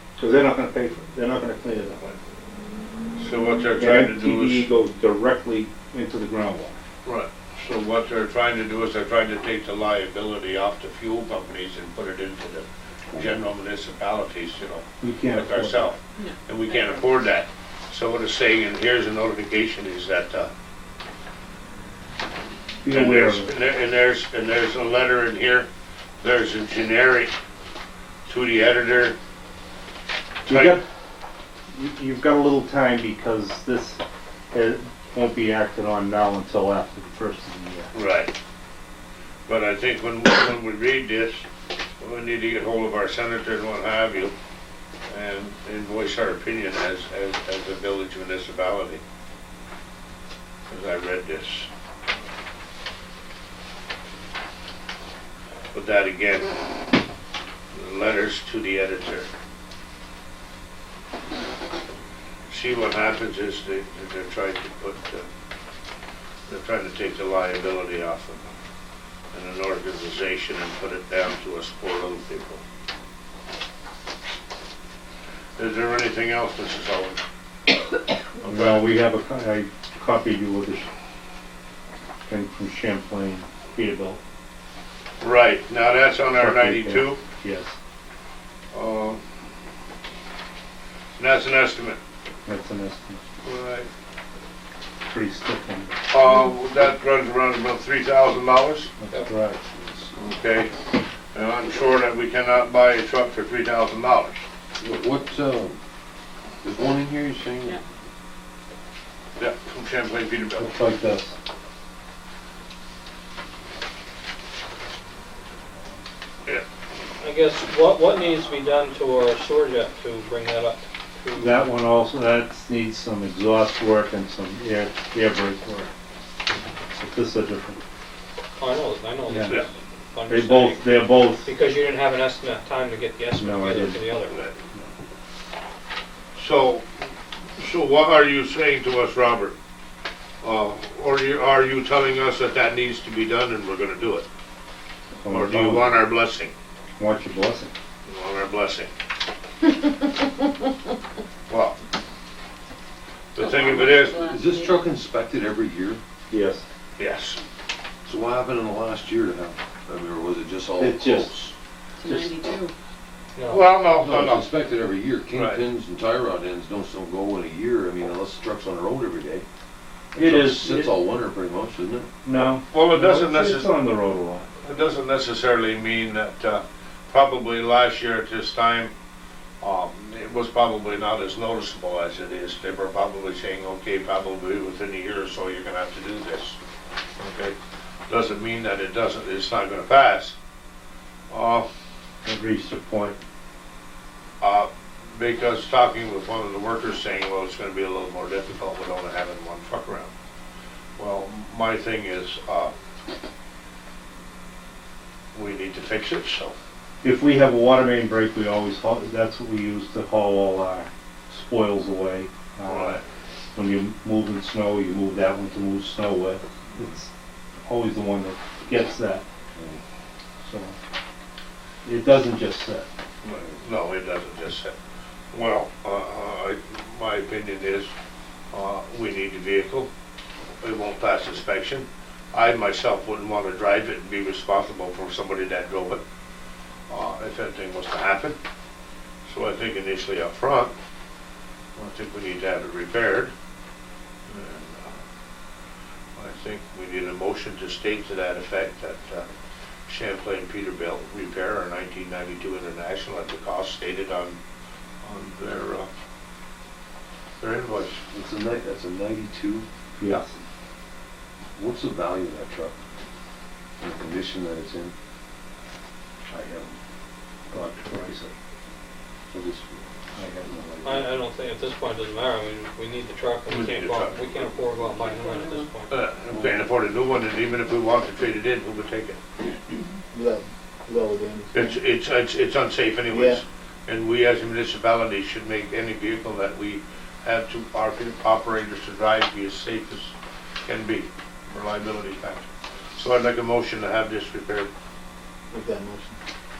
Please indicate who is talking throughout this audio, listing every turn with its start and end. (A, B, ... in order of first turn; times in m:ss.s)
0:00.2-0:02.2 A
0:03.2-0:04.7 B
0:03.8-0:06.8 A
0:07.0-0:20.5 B
0:15.0-0:15.9 A
0:22.8-0:23.5 A
0:22.9-0:25.7 B
0:26.2-0:27.3 B
0:28.3-0:29.2 B
0:30.4-0:30.8 B
0:30.5-0:30.8 A
0:31.7-0:37.9 A
0:37.9-0:38.3 B
0:39.5-0:41.4 B
0:42.0-0:44.3 B
0:45.1-0:49.0 B
0:50.7-0:51.7 B
0:55.7-0:56.8 B
0:57.7-0:59.3 B
1:02.5-1:05.3 B
1:06.5-1:08.5 B
1:09.3-1:12.6 B
1:15.6-1:17.2 B
1:18.4-1:18.9 B
1:18.5-1:20.9 A
1:22.3-1:24.2 A
1:25.2-1:27.2 B
1:26.4-1:27.8 A
1:28.7-1:29.2 B
1:31.2-1:32.0 B
1:32.5-1:33.2 A
1:33.4-1:33.9 B
1:35.1-1:36.0 A
1:36.1-1:38.9 B
1:39.0-1:39.6 A
1:39.7-1:40.1 C
1:40.2-1:40.7 B
1:41.3-1:44.4 B
1:44.8-1:45.8 C
1:46.6-1:47.8 C
1:49.4-1:50.8 B
1:50.6-1:51.4 A
1:57.2-2:01.8 D
2:01.4-2:05.9 A
2:06.9-2:07.8 A
2:08.6-2:14.4 D
2:09.3-2:09.6 A
2:10.3-2:11.5 A
2:13.4-2:14.0 A
2:16.4-2:17.0 B
2:17.6-2:19.6 B
2:20.4-2:24.3 B
2:25.2-2:25.9 A
2:25.3-2:26.5 B
2:27.0-2:27.7 A
2:28.1-2:28.9 B
2:31.5-2:31.8 B
2:33.4-2:34.3 B
2:33.4-2:34.8 E
2:34.1-2:36.0 C
2:36.3-2:36.6 A
2:37.0-2:37.4 B
2:38.1-2:41.5 C
2:40.8-2:41.5 A
2:42.0-2:42.7 E
2:42.0-2:42.4 A
2:43.4-2:43.7 D
2:43.5-2:44.5 B
2:44.0-2:49.5 C
2:45.3-2:45.6 B
2:50.2-2:50.9 A
2:50.2-2:52.1 C
2:52.2-2:54.5 A
2:52.6-2:53.8 B
2:54.6-2:58.9 B
2:59.6-3:06.6 B
3:07.2-3:07.6 B
3:08.1-3:10.4 B
3:11.3-3:11.7 B
3:12.2-3:13.2 A
3:14.4-3:20.1 B
3:21.0-3:22.7 B
3:25.4-3:26.6 B
3:27.0-3:33.0 A
3:32.7-3:33.0 B
3:33.6-3:37.1 A
3:37.7-3:39.2 A
3:39.6-3:39.8 C
3:40.4-3:40.8 A
3:41.8-3:42.9 A
3:43.2-3:44.8 B
3:45.3-3:47.9 B
3:48.5-3:49.9 B
3:50.6-3:56.0 B
3:56.9-3:58.4 B
3:59.3-4:00.7 B
4:01.8-4:03.3 B
4:04.3-4:05.0 B
4:06.2-4:09.3 B
4:09.9-4:14.4 B
4:15.0-4:15.9 B
4:17.4-4:18.0 B
4:18.1-4:19.7 C
4:20.0-4:20.3 A
4:21.6-4:22.8 C
4:23.8-4:24.9 C
4:26.3-4:26.8 A
4:27.5-4:28.3 A
4:29.3-4:29.9 C
4:30.2-4:30.5 A
4:30.4-4:31.2 C
4:30.8-4:36.0 D
4:33.5-4:34.8 B
4:35.0-4:35.7 E
4:35.9-4:39.2 B
4:40.1-4:41.7 F
4:41.5-4:50.1 B
4:43.1-4:43.4 F
4:50.7-4:54.7 B
4:55.5-4:56.2 F